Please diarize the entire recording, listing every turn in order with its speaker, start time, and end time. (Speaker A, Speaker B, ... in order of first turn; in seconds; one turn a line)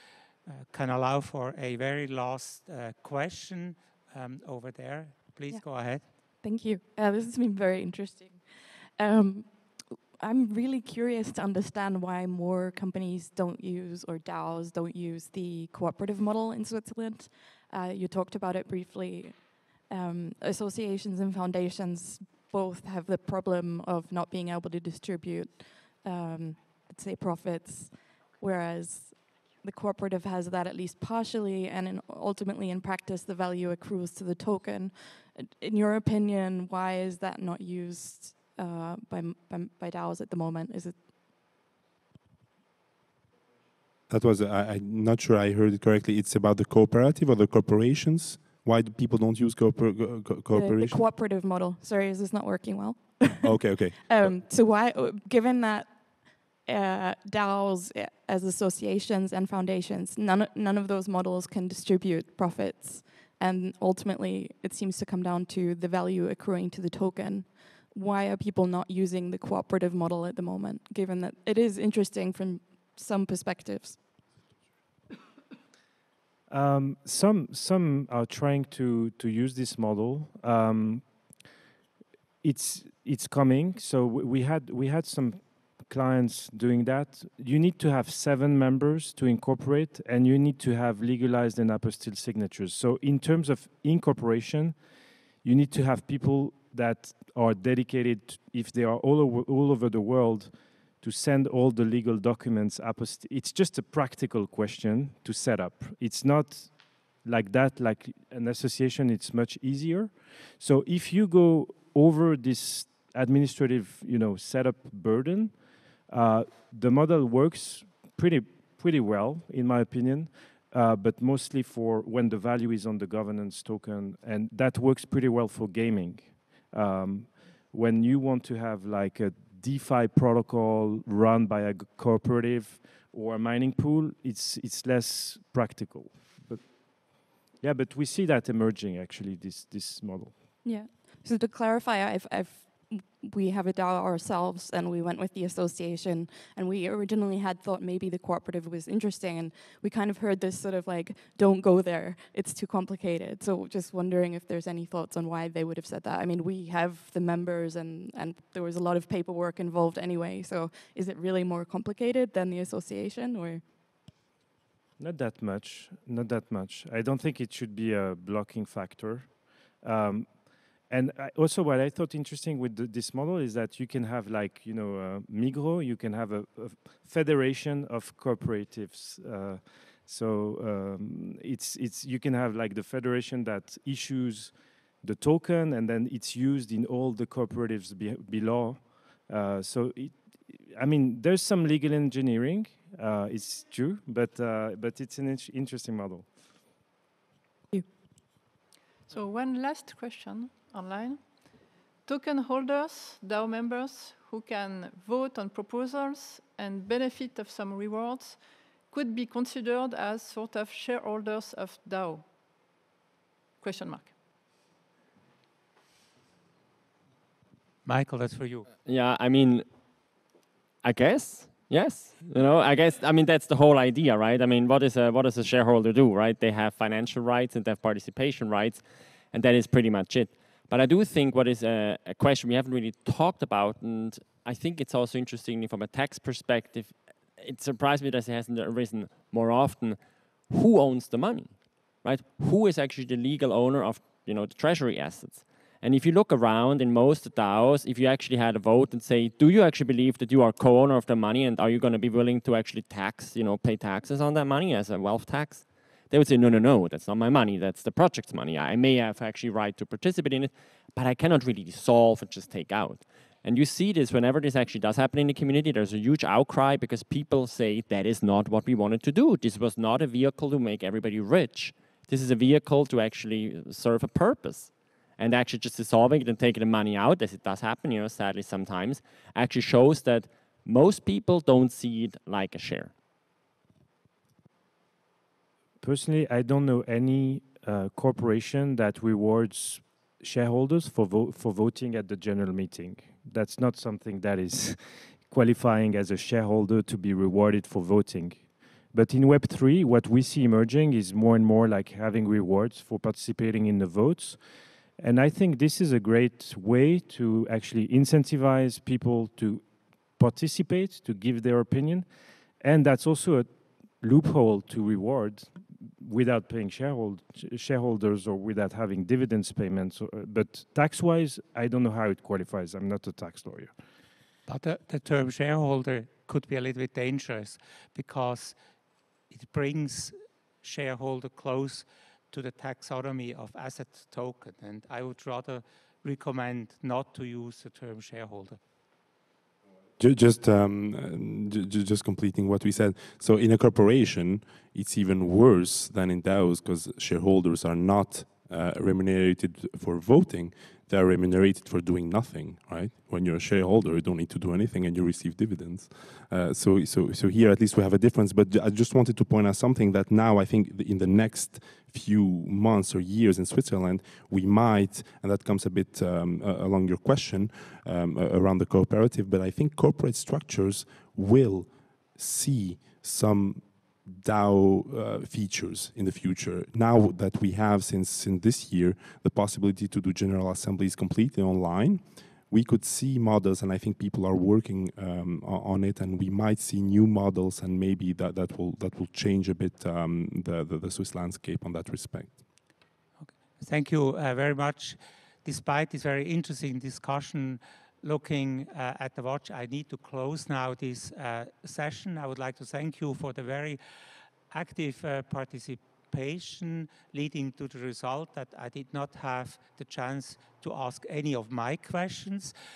Speaker A: 0.5-6.0
Speaker B: 5.5-41.1
Speaker C: 44.1-51.0
Speaker B: 50.5-74.0
Speaker C: 53.4-54.3
Speaker D: 76.5-81.1
Speaker D: 82.4-94.8
Speaker D: 95.4-140.4
Speaker B: 140.6-163.6
Speaker D: 165.0-170.3
Speaker D: 170.9-196.3
Speaker E: 199.1-212.2
Speaker E: 213.6-214.2
Speaker A: 217.8-218.7
Speaker F: 218.8-219.9
Speaker F: 220.8-282.9
Speaker D: 285.8-304.4
Speaker D: 305.0-312.1
Speaker D: 312.6-323.7
Speaker A: 324.4-328.6
Speaker A: 329.3-338.6
Speaker C: 340.0-392.4
Speaker A: 393.2-403.8
Speaker A: 404.5-412.5